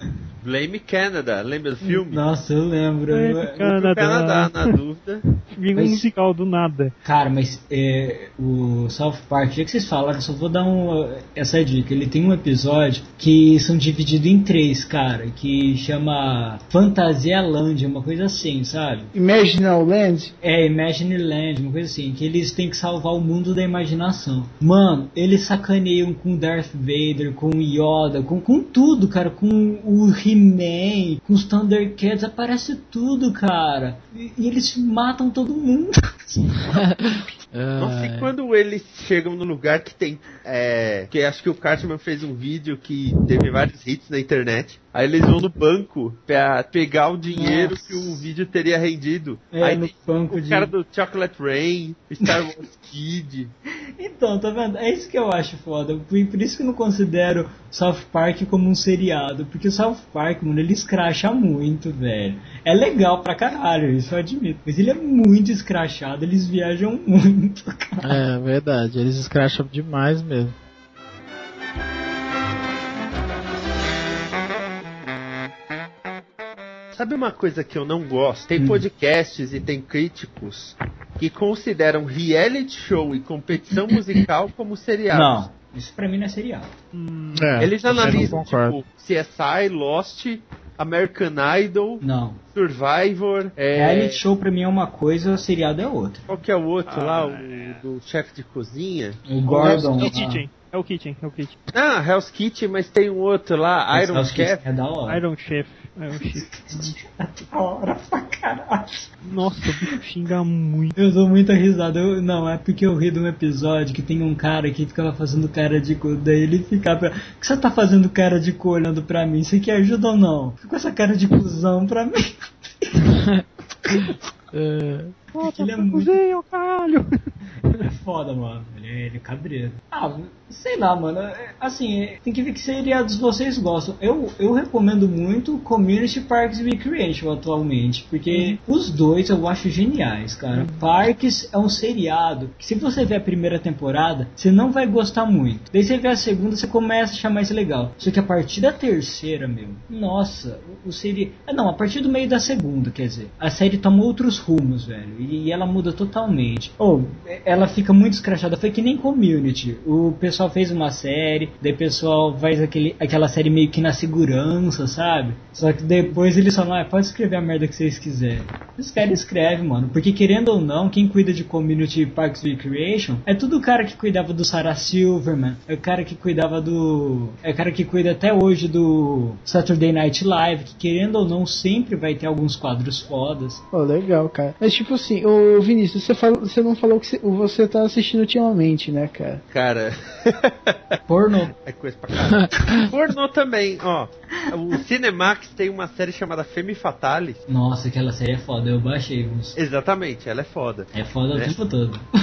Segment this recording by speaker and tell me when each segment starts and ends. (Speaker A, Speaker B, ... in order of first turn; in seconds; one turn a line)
Speaker A: 0.4-2.2
Speaker B: 1.8-3.6
Speaker C: 3.1-4.7
Speaker A: 3.6-5.2
Speaker C: 5.4-6.9
Speaker B: 5.7-6.0
Speaker B: 7.0-19.1
Speaker D: 19.1-20.3
Speaker B: 20.4-36.8
Speaker E: 36.8-38.3
Speaker A: 37.8-53.5
Speaker B: 47.3-48.2
Speaker B: 49.5-50.7
Speaker B: 54.0-68.2
Speaker E: 68.0-70.5
Speaker A: 76.9-85.4
Speaker B: 78.5-78.8
Speaker B: 85.1-86.7
Speaker C: 86.9-88.1
Speaker E: 87.3-88.8
Speaker A: 87.6-92.0
Speaker B: 92.0-92.4
Speaker A: 92.5-94.2
Speaker B: 93.7-96.3
Speaker A: 96.3-99.2
Speaker C: 96.9-97.8
Speaker B: 99.3-100.4
Speaker D: 99.6-100.0
Speaker C: 100.0-101.6
Speaker A: 101.7-104.6
Speaker B: 103.9-105.2
Speaker C: 105.1-107.0
Speaker B: 106.5-109.1
Speaker C: 109.2-111.0
Speaker B: 111.0-123.1
Speaker E: 123.0-125.1
Speaker B: 125.3-126.2
Speaker C: 125.3-127.8
Speaker B: 127.8-183.6
Speaker D: 183.7-189.4
Speaker A: 189.5-191.0
Speaker B: 191.1-191.5
Speaker A: 191.5-197.4
Speaker B: 197.5-199.6
Speaker A: 199.6-201.5
Speaker B: 200.9-202.0